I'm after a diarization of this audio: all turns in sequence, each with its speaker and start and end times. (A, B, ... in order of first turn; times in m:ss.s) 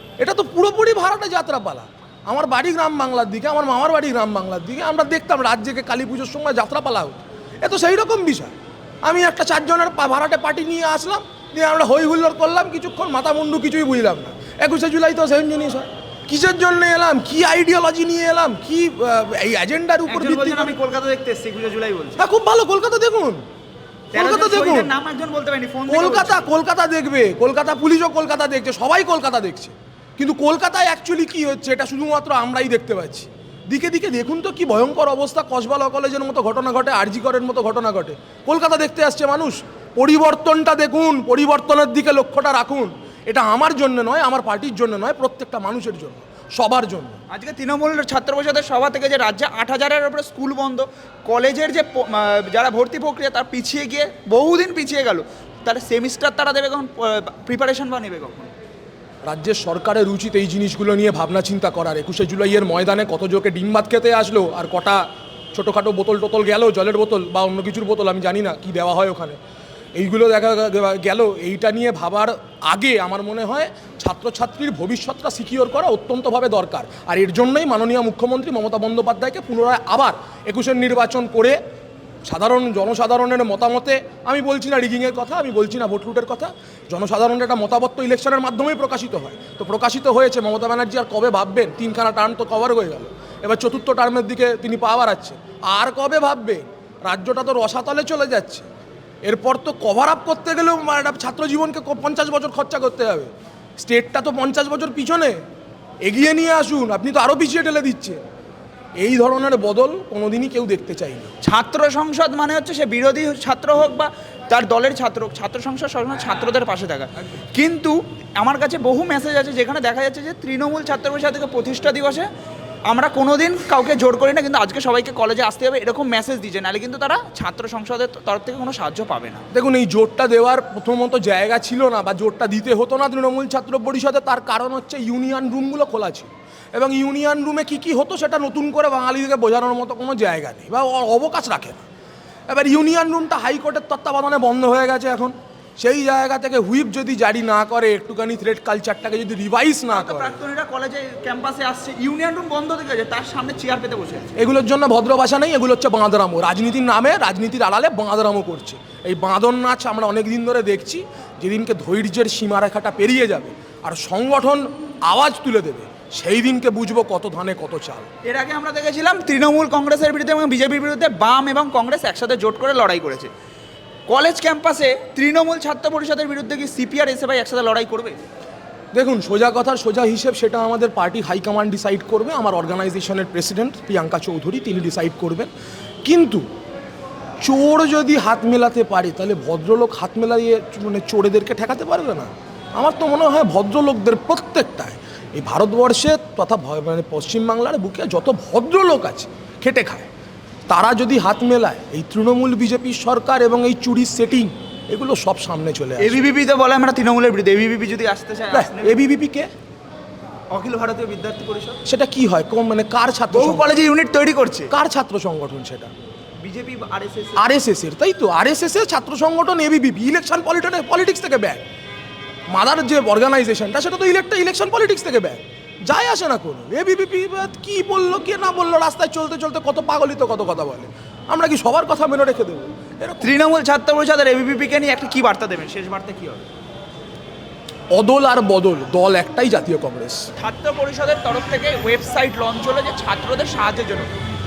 0:00.2-0:08.5 A
0:09.0-0:20.7 A
0:20.1-0:22.2 B
0:22.2-0:23.4 A
0:24.1-0:26.5 B
0:24.1-0:24.9 A
0:25.9-0:47.2 A
0:47.3-0:58.5 B
0:59.2-1:05.0 A
1:05.5-1:09.4 A
1:10.0-1:21.6 A
1:22.2-1:38.6 A
1:39.2-1:45.4 A
1:46.0-1:48.2 A
1:49.0-1:51.3 A
1:51.4-2:02.3 B
2:02.9-2:09.4 B
2:09.5-2:21.8 A
2:22.5-2:30.4 A
2:29.9-2:34.4 B
2:34.4-2:48.1 A
2:48.2-2:53.3 B
2:54.1-2:58.2 B
2:58.9-3:05.5 A
3:06.0-3:06.4 A
3:07.4-3:20.1 A
3:20.7-3:26.2 A
3:26.0-3:29.0 B
3:28.5-3:29.5 A
3:30.5-3:31.8 B
3:31.8-3:33.7 A
3:33.3-3:34.7 B
3:34.7-3:35.9 A
3:36.4-3:37.4 B
3:37.4-3:41.6 A
3:42.5-3:53.3 A
3:53.2-3:56.5 B
3:57.9-4:00.2 A
4:00.4-4:04.1 B